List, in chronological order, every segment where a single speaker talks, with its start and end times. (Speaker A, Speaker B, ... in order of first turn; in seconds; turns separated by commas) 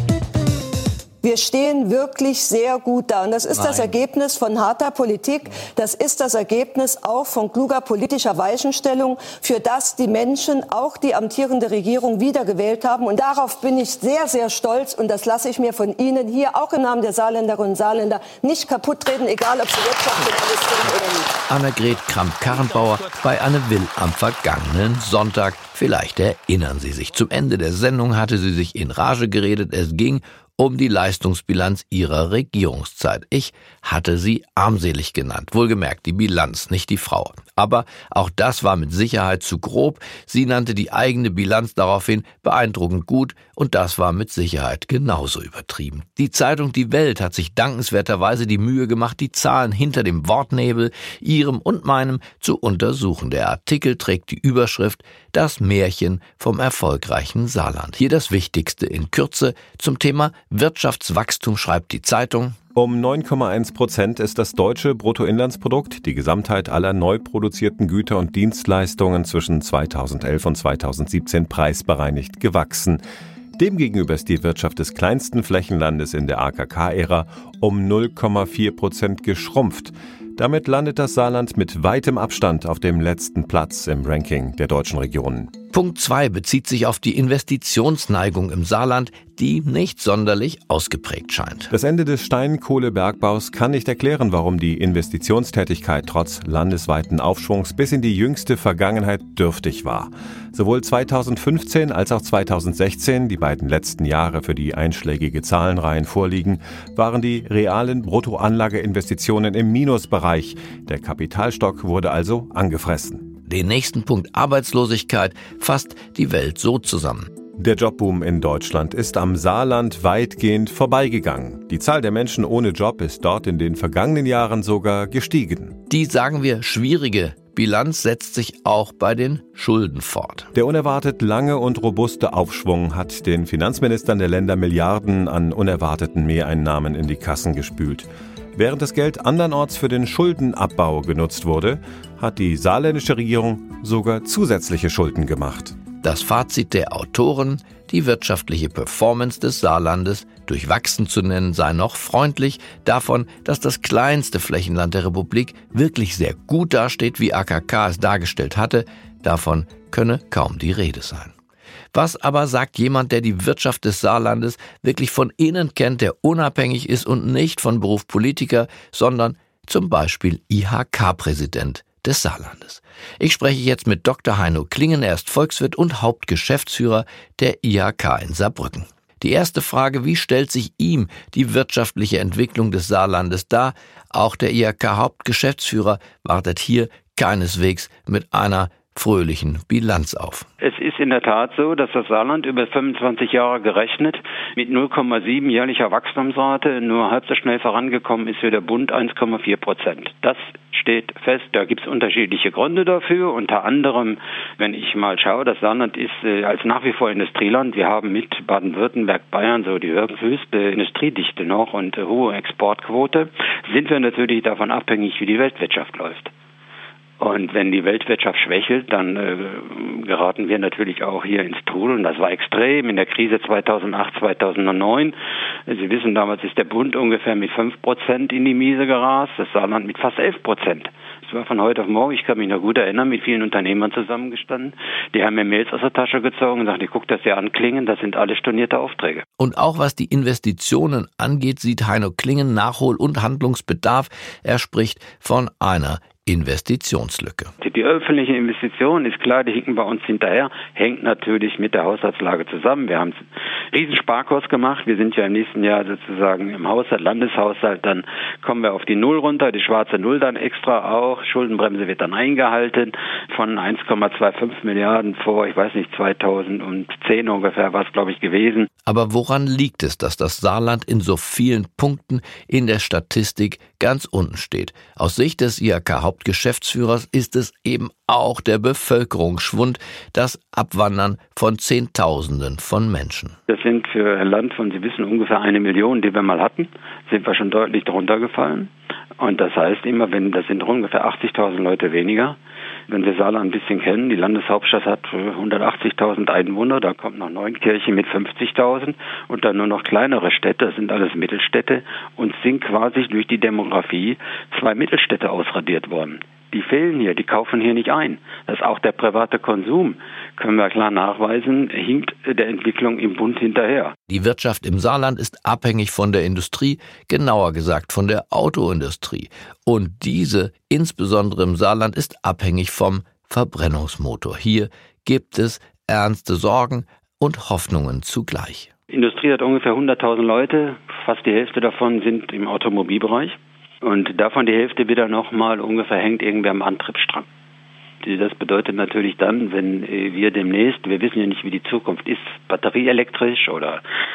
Speaker A: 1.2-21.3, Speaker B: 3.5-4.0, Speaker B: 21.5-62.6, Speaker C: 62.8-73.0, Speaker C: 73.6-85.5, Speaker B: 85.7-91.7, Speaker C: 91.7-113.3, Speaker B: 113.5-117.3, Speaker C: 117.5-125.8, Speaker B: 125.9-130.5, Speaker C: 130.5-145.8, Speaker B: 146.0-161.3, Speaker B: 161.9-190.5, Speaker D: 190.6-216.3, Speaker D: 217.2-225.2, Speaker D: 225.7-239.2, Speaker B: 239.4-247.5, Speaker D: 247.6-253.2, Speaker D: 253.7-268.7, Speaker B: 268.9-283.4, Speaker D: 283.5-292.4, Speaker D: 292.9-313.9, Speaker B: 314.1-328.7, Speaker D: 328.9-337.3, Speaker D: 338.0-343.8